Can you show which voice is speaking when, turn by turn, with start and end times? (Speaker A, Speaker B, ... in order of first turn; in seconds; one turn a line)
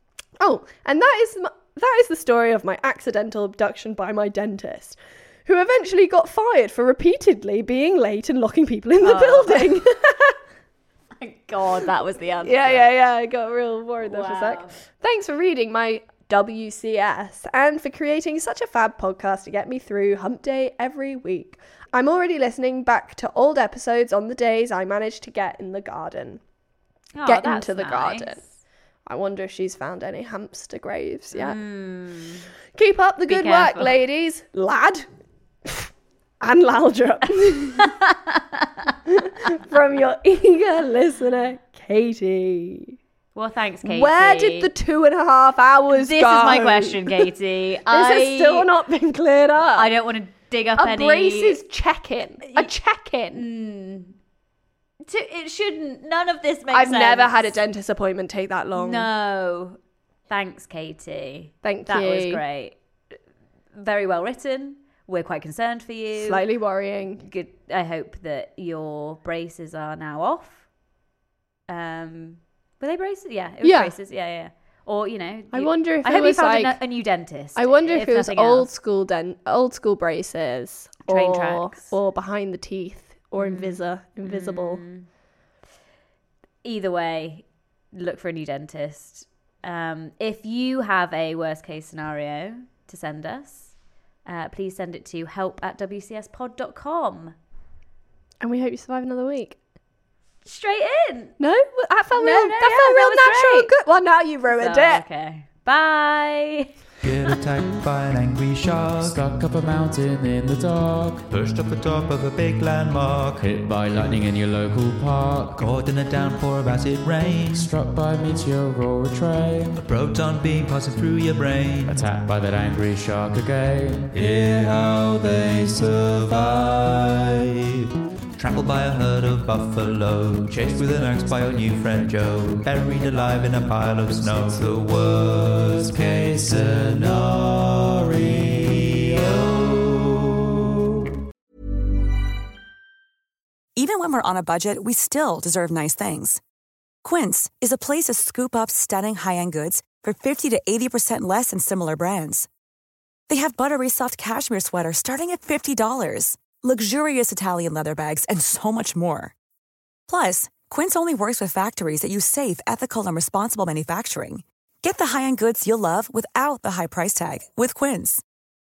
Speaker A: 0.4-10.4
Speaker B: 9.0-9.8
Speaker B: 11.2-12.9
Speaker A: 12.4-26.4
Speaker B: 14.1-14.8
Speaker B: 27.1-28.4
Speaker A: 27.2-28.4
Speaker A: 29.1-31.6
Speaker B: 31.3-32.5
Speaker A: 32.7-35.1
Speaker B: 33.3-33.9
Speaker A: 35.6-38.0
Speaker B: 38.0-38.6
Speaker A: 39.1-43.0
Speaker B: 43.3-44.7
Speaker A: 43.8-47.3
Speaker B: 45.9-48.7
Speaker A: 47.9-49.9
Speaker B: 49.7-51.6
Speaker A: 50.8-53.4
Speaker B: 53.3-54.1
Speaker B: 55.0-57.6
Speaker A: 56.7-59.1
Speaker B: 58.7-59.8
Speaker B: 60.3-62.8
Speaker A: 61.6-62.4
Speaker B: 63.7-66.4
Speaker A: 66.2-67.2
Speaker B: 67.2-70.6
Speaker B: 71.7-78.7
Speaker A: 73.6-73.9
Speaker A: 75.5-76.8
Speaker A: 77.5-84.8
Speaker B: 81.1-81.9
Speaker B: 83.4-85.1
Speaker B: 86.6-93.7
Speaker B: 94.2-97.3
Speaker A: 98.4-99.6
Speaker B: 100.4-101.3
Speaker A: 101.4-105.0
Speaker B: 102.1-103.7
Speaker B: 104.5-106.7
Speaker C: 107.0-109.2
Speaker D: 109.0-111.2
Speaker C: 111.3-113.4
Speaker D: 113.4-115.6
Speaker C: 115.5-117.7
Speaker D: 117.5-119.8
Speaker C: 119.8-122.0
Speaker D: 121.9-124.1
Speaker C: 124.1-127.8
Speaker C: 128.3-140.9
Speaker E: 143.8-146.4
Speaker E: 147.0-152.5
Speaker E: 153.3-159.3
Speaker E: 160.1-168.2